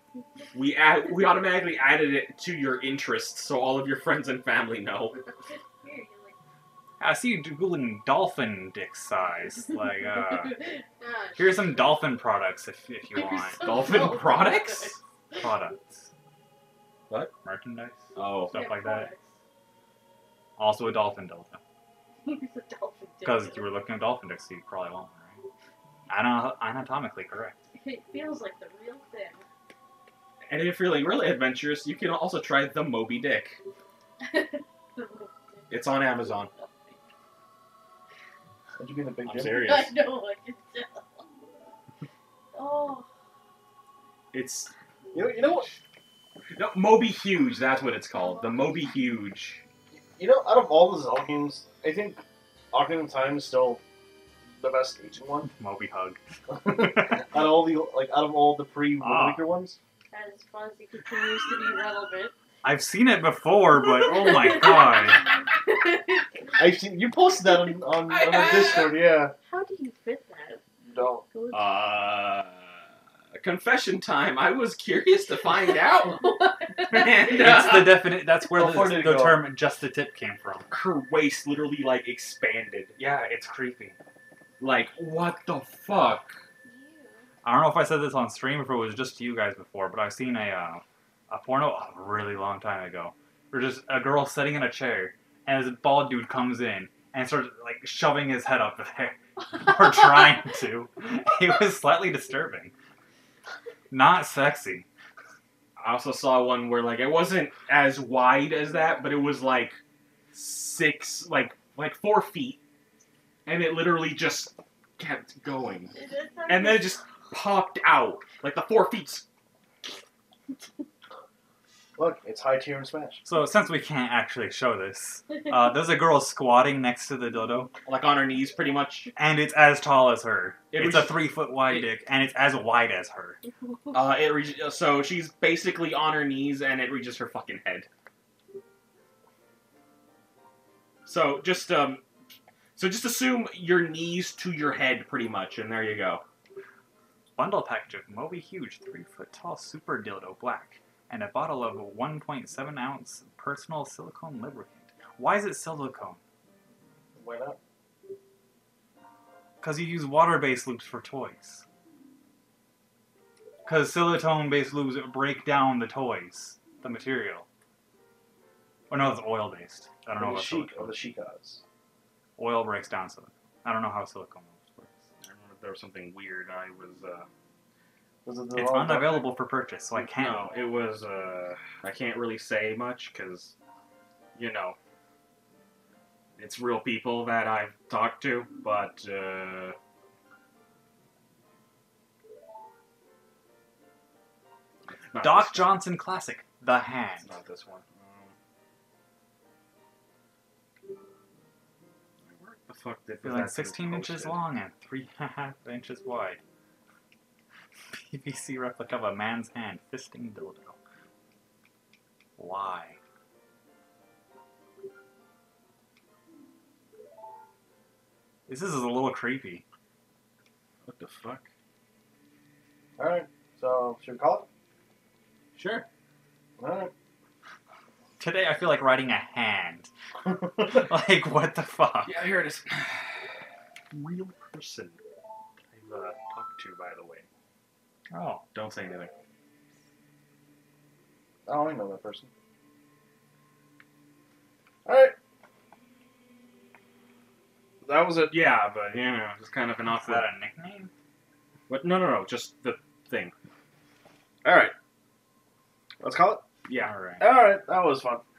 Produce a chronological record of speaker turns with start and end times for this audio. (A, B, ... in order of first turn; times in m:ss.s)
0:00.5-0:05.2 A
0:05.8-0:06.4 B
0:07.0-0:10.6 C
0:10.6-0:11.6 B
0:11.4-0:13.8 C
0:13.1-0:15.4 B
0:13.6-0:15.0 A
0:15.4-0:16.1 C
0:17.4-0:19.1 C
0:18.2-0:18.5 A
0:18.5-0:19.4 B
0:20.6-0:21.6 C
0:22.2-0:23.7 B
0:23.2-0:25.4 C
0:26.1-0:27.6 C
0:27.7-0:29.4 B
0:30.4-0:33.6 A
0:34.2-0:37.0 B
0:35.7-0:36.5 A
0:38.8-0:39.9 D
0:39.2-0:40.0 A
0:39.6-0:41.3 B
0:42.5-0:43.1 B
0:44.3-0:44.7 A
0:45.1-0:45.7 D
0:46.5-0:49.6 A
0:48.1-0:48.8 B
0:50.1-0:53.8 D
0:54.6-0:55.5 D
0:55.5-0:57.2 C
0:56.5-0:59.8 D
0:59.0-0:59.4 C
1:00.1-1:02.3 B
1:02.6-1:05.2 C
1:04.1-1:06.2 B
1:06.6-1:09.3 D
1:08.0-1:08.9 A
1:09.5-1:10.6 B
1:10.8-1:11.2 D
1:11.3-1:11.8 B
1:11.5-1:12.8 A
1:13.3-1:16.2 A
1:16.1-1:17.3 B
1:16.8-1:18.2 A
1:17.3-1:20.7 C
1:18.5-1:19.5 D
1:20.7-1:23.0 A
1:23.0-1:24.0 C
1:24.6-1:26.4 A
1:26.6-1:27.3 B
1:27.4-1:42.7 C
1:43.9-1:44.9 C
1:45.8-1:49.8 A
1:50.3-1:52.6 A
1:53.4-1:55.9 A
1:55.9-1:57.0 B
1:56.5-1:59.2 A
2:02.0-2:03.2 D
2:03.2-2:07.7 C
2:07.8-2:09.1 A
2:09.2-2:13.4 C
2:10.7-2:11.9 A
2:13.9-2:17.9 A
2:21.0-2:22.0 A
2:22.8-2:26.2 A
2:27.4-2:36.2 C
2:37.2-2:37.6 D
2:39.6-2:41.6 C
2:43.6-2:47.4 C
2:48.9-2:51.0 C
2:50.2-2:51.6 D
2:52.4-2:55.0 C
2:55.2-2:57.3 A
2:58.2-2:59.3 D
2:58.5-3:00.5 C
3:00.0-3:03.5 A
3:04.4-3:04.8 A
3:06.4-3:09.8 A
3:15.1-3:15.8 A
3:15.2-3:17.3 C
3:17.2-3:18.3 A
3:22.3-3:24.4 A
3:23.2-3:26.4 C
3:27.9-3:30.8 C
3:32.4-3:33.0 C
3:38.5-3:39.6 C
3:40.8-3:41.5 A
3:43.0-3:44.5 D
3:45.6-3:45.8 A
3:46.6-3:46.9 D
3:48.2-3:49.9 C
3:50.6-3:52.3 C
3:52.0-3:53.1 A
3:53.9-3:55.0 A
3:55.7-3:57.3 A
3:58.1-3:58.4 C
3:58.5-3:59.1 A
4:01.5-4:02.3 D
4:04.8-4:05.1 D
4:07.8-4:08.3 D
4:08.3-4:10.3 A
4:10.0-4:10.9 C
4:11.7-4:13.3 A
4:14.4-4:14.7 D
4:16.0-4:16.4 D
4:16.7-4:16.9 A
4:16.8-4:17.2 C
4:17.2-4:18.2 D